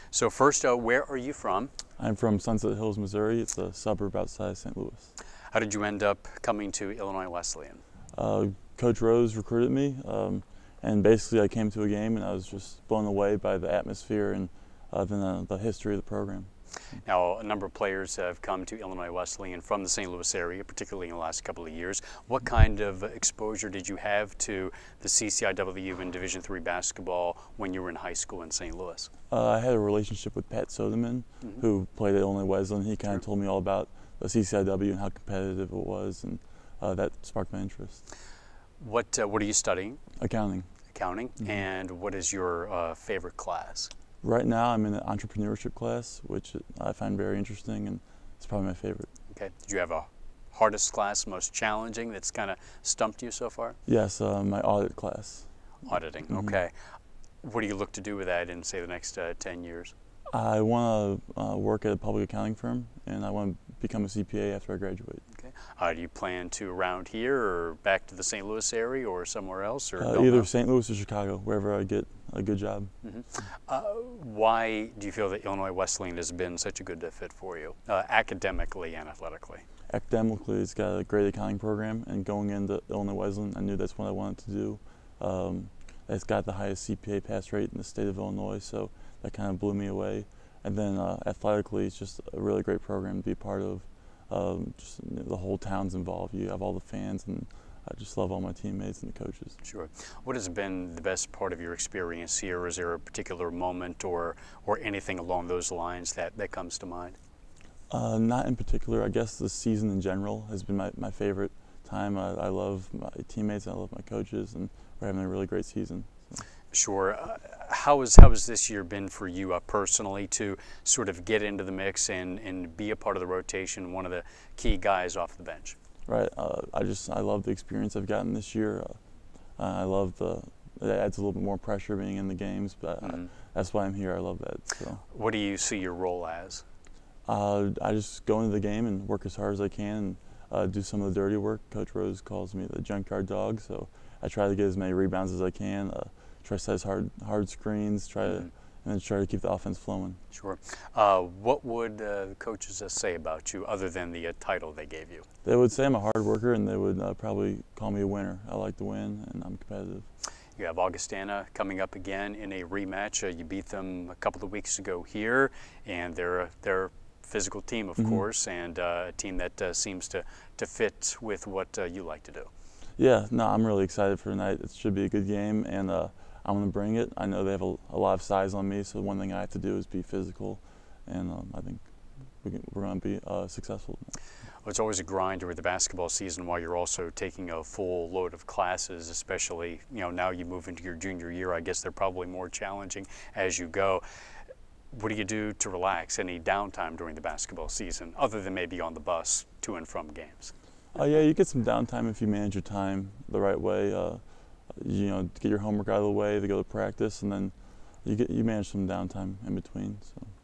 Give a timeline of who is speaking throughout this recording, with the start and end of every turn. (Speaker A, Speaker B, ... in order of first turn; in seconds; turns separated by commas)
Speaker A: 0.1-1.7, Speaker B: 2.0-5.1, Speaker A: 5.5-7.8, Speaker B: 8.1-16.5, Speaker A: 17.0-29.1, Speaker B: 29.3-38.0, Speaker A: 38.8-40.0, Speaker B: 40.2-40.7, Speaker A: 40.9-43.9, Speaker B: 44.2-49.1, Speaker A: 49.3-53.8, Speaker B: 53.9-56.6, Speaker A: 55.9-59.9, Speaker B: 60.3-65.2, Speaker A: 65.3-70.5, Speaker B: 70.0-72.9, Speaker A: 73.0-79.6, Speaker B: 79.9-99.6, Speaker A: 99.6-107.2, Speaker B: 107.9-116.4, Speaker A: 116.7-125.8, Speaker B: 126.1-129.0, Speaker B: 129.6-135.0, Speaker A: 133.0-133.3, Speaker A: 135.1-136.6, Speaker B: 137.3-150.2, Speaker A: 148.2-148.5, Speaker A: 150.3-155.2, Speaker B: 155.4-160.1, Speaker A: 160.6-172.5, Speaker B: 168.0-168.2, Speaker B: 173.0-181.8, Speaker B: 182.4-184.2, Speaker A: 184.6-194.0, Speaker A: 194.9-200.5, Speaker B: 200.9-210.3